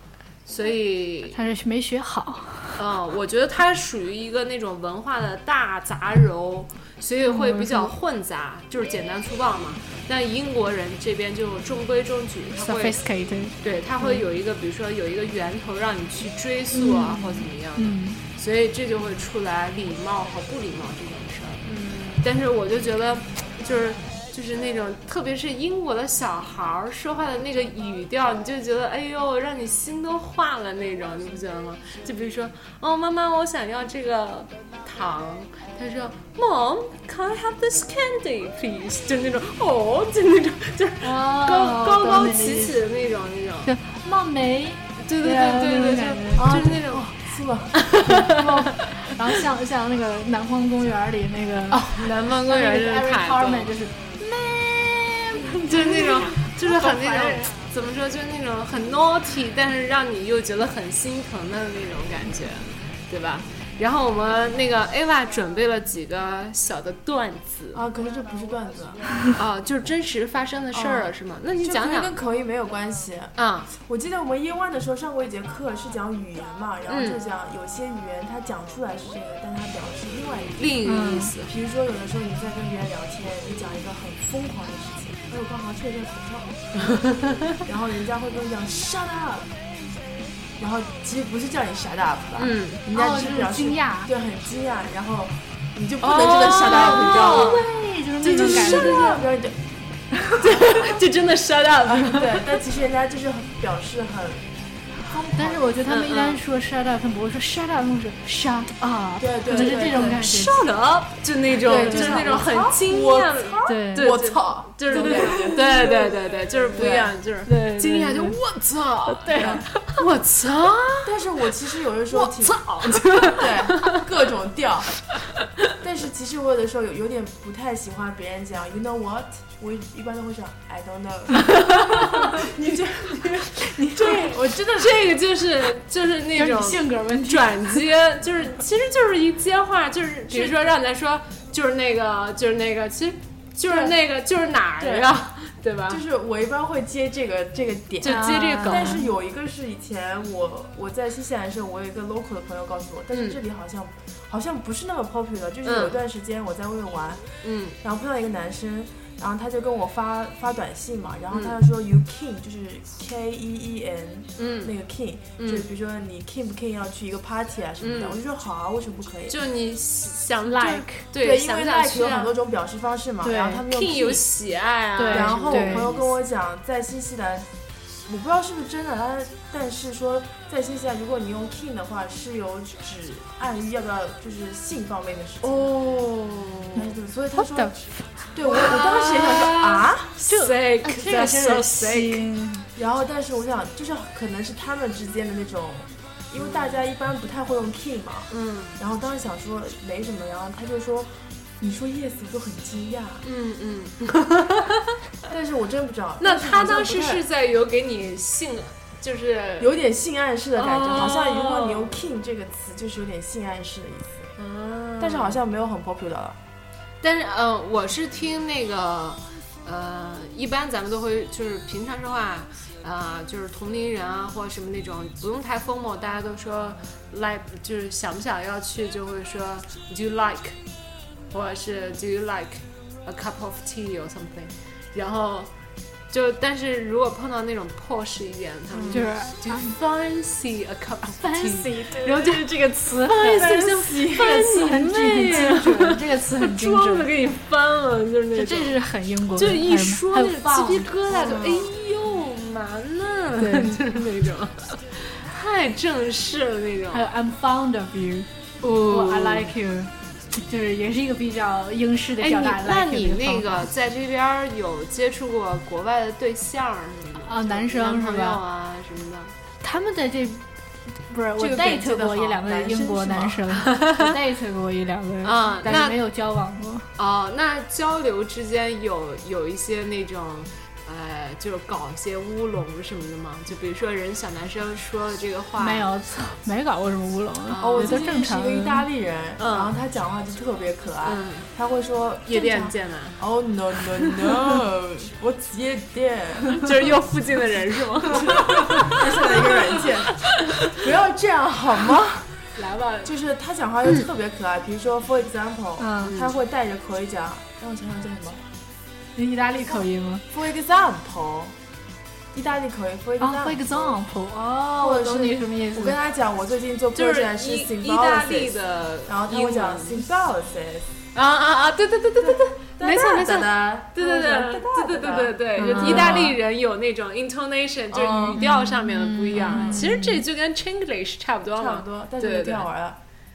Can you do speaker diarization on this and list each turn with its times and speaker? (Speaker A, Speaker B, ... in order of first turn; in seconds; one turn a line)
Speaker A: 0.5-1.4
Speaker B: 1.3-2.8
Speaker A: 2.8-13.0
Speaker B: 7.3-7.9
Speaker B: 12.6-14.2
Speaker A: 13.6-43.7
Speaker B: 16.7-18.2
Speaker B: 41.0-42.8
Speaker B: 43.6-46.6
Speaker A: 45.0-47.1
Speaker C: 46.4-47.8
Speaker A: 47.7-48.9
Speaker B: 48.0-57.5
Speaker A: 51.7-53.7
Speaker A: 55.5-67.8
Speaker C: 67.7-69.1
Speaker A: 69.3-72.1
Speaker C: 70.7-80.8
Speaker A: 73.4-73.7
Speaker A: 76.9-77.2
Speaker A: 80.6-81.5
Speaker B: 80.8-81.3
Speaker C: 81.5-87.0
Speaker A: 86.9-87.6
Speaker C: 87.6-89.5
Speaker C: 90.6-97.6
Speaker A: 92.4-92.8
Speaker B: 92.9-94.1
Speaker A: 96.0-97.7
Speaker B: 96.6-99.2
Speaker A: 98.2-99.2
Speaker C: 98.3-99.6
Speaker A: 100.4-102.5
Speaker C: 101.8-104.5
Speaker C: 105.0-105.8
Speaker B: 105.1-110.7
Speaker A: 105.9-106.4
Speaker C: 109.2-110.2
Speaker A: 109.5-121.1
Speaker C: 111.6-116.1
Speaker B: 111.7-112.5
Speaker B: 113.7-114.2
Speaker B: 114.9-115.8
Speaker C: 116.7-117.1
Speaker B: 116.8-118.4
Speaker B: 119.1-119.9
Speaker C: 119.3-119.7
Speaker C: 121.0-124.9
Speaker A: 122.1-124.0
Speaker C: 125.8-135.1
Speaker B: 133.6-134.3
Speaker A: 134.0-146.0
Speaker B: 136.3-137.8
Speaker C: 143.7-143.9
Speaker C: 144.8-145.1
Speaker C: 145.9-157.3
Speaker A: 148.0-149.0
Speaker B: 148.1-149.1
Speaker A: 153.1-153.4
Speaker A: 155.7-156.0
Speaker A: 157.4-157.8
Speaker C: 157.8-169.4
Speaker A: 161.3-161.6
Speaker A: 164.4-164.7
Speaker A: 165.4-165.7
Speaker A: 167.8-168.2
Speaker A: 169.3-172.3
Speaker B: 170.5-171.1
Speaker C: 171.2-174.3
Speaker B: 173.2-173.6
Speaker A: 173.7-176.1
Speaker B: 175.0-175.9
Speaker C: 175.1-177.5
Speaker C: 178.1-185.7
Speaker A: 185.4-186.8
Speaker C: 186.8-187.8
Speaker B: 187.4-188.0
Speaker C: 188.3-190.2
Speaker A: 188.5-192.2
Speaker B: 190.3-192.7
Speaker C: 192.8-203.2
Speaker A: 196.4-196.8
Speaker A: 198.3-198.8
Speaker A: 203.2-204.9
Speaker C: 205.3-207.2
Speaker A: 206.2-209.7
Speaker C: 209.6-214.3
Speaker A: 210.6-212.0
Speaker A: 214.4-215.4
Speaker C: 215.0-216.4
Speaker A: 217.0-230.6
Speaker A: 231.3-235.5
Speaker A: 236.1-248.8
Speaker C: 238.7-239.1
Speaker B: 238.9-239.7
Speaker B: 241.1-247.1
Speaker C: 243.4-244.3
Speaker B: 248.3-251.6
Speaker A: 249.3-257.1
Speaker B: 253.4-253.8
Speaker B: 256.9-258.3
Speaker A: 258.6-259.5
Speaker B: 258.9-263.7
Speaker A: 262.2-269.3
Speaker B: 267.2-268.4
Speaker B: 269.6-270.4
Speaker B: 271.0-276.9
Speaker C: 271.4-273.5
Speaker A: 273.8-274.1
Speaker A: 275.2-276.0
Speaker A: 277.0-285.9
Speaker B: 285.6-288.9
Speaker A: 287.5-288.0
Speaker C: 287.6-296.6
Speaker A: 289.4-289.7
Speaker A: 291.1-291.5
Speaker A: 292.3-293.2
Speaker A: 296.6-299.5
Speaker C: 298.8-302.4
Speaker A: 302.6-303.1
Speaker C: 303.0-308.4
Speaker B: 305.8-306.1
Speaker A: 306.0-306.3
Speaker B: 309.2-310.2
Speaker C: 310.3-311.6
Speaker C: 312.3-314.0
Speaker B: 313.2-316.0
Speaker C: 314.8-318.6
Speaker A: 316.9-320.0
Speaker C: 319.1-320.9
Speaker A: 321.1-332.7
Speaker C: 322.2-326.4
Speaker B: 325.6-326.3
Speaker C: 327.9-328.4
Speaker B: 328.4-330.2
Speaker C: 331.6-333.0